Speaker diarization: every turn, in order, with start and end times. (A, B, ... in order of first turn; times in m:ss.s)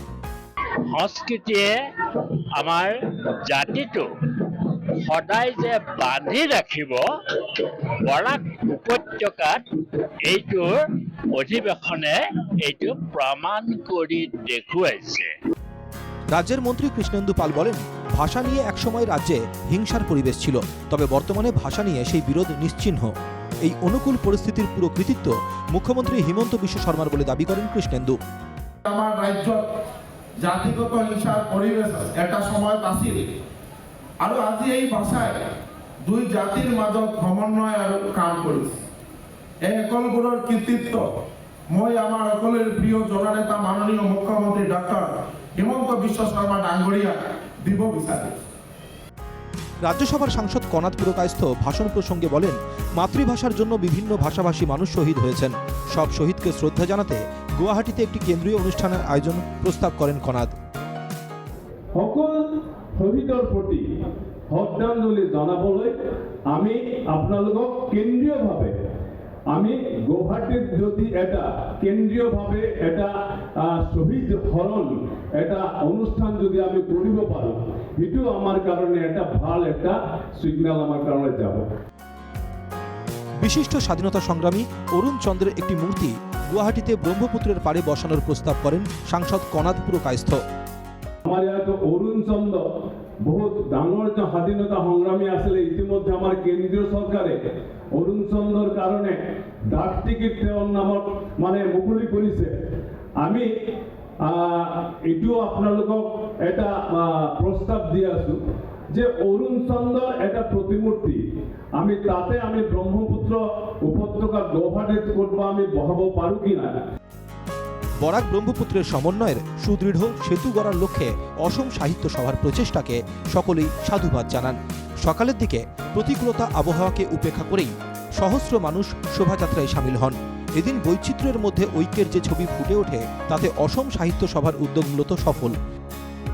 0:00.9-0:15.3 A
0:16.3-0:23.1 B
0:23.7-0:28.2 B
0:28.8-0:29.6 C
0:30.4-0:33.2 C
0:34.2-0:35.4 C
0:36.0-0:38.8 C
0:39.7-0:41.1 C
0:41.7-0:48.4 C
0:49.8-1:00.5 B
1:02.0-1:03.8 D
1:04.5-1:05.9 D
1:06.5-1:08.7 D
1:09.5-1:21.7 D
1:23.4-1:30.4 B
1:31.2-1:32.6 D
1:33.2-1:37.4 D
1:38.0-1:39.2 D
1:39.7-1:42.5 D
1:43.2-1:43.5 D
1:44.2-1:48.4 D
1:48.9-1:51.2 D
1:51.8-1:56.8 D
1:58.0-2:15.6 B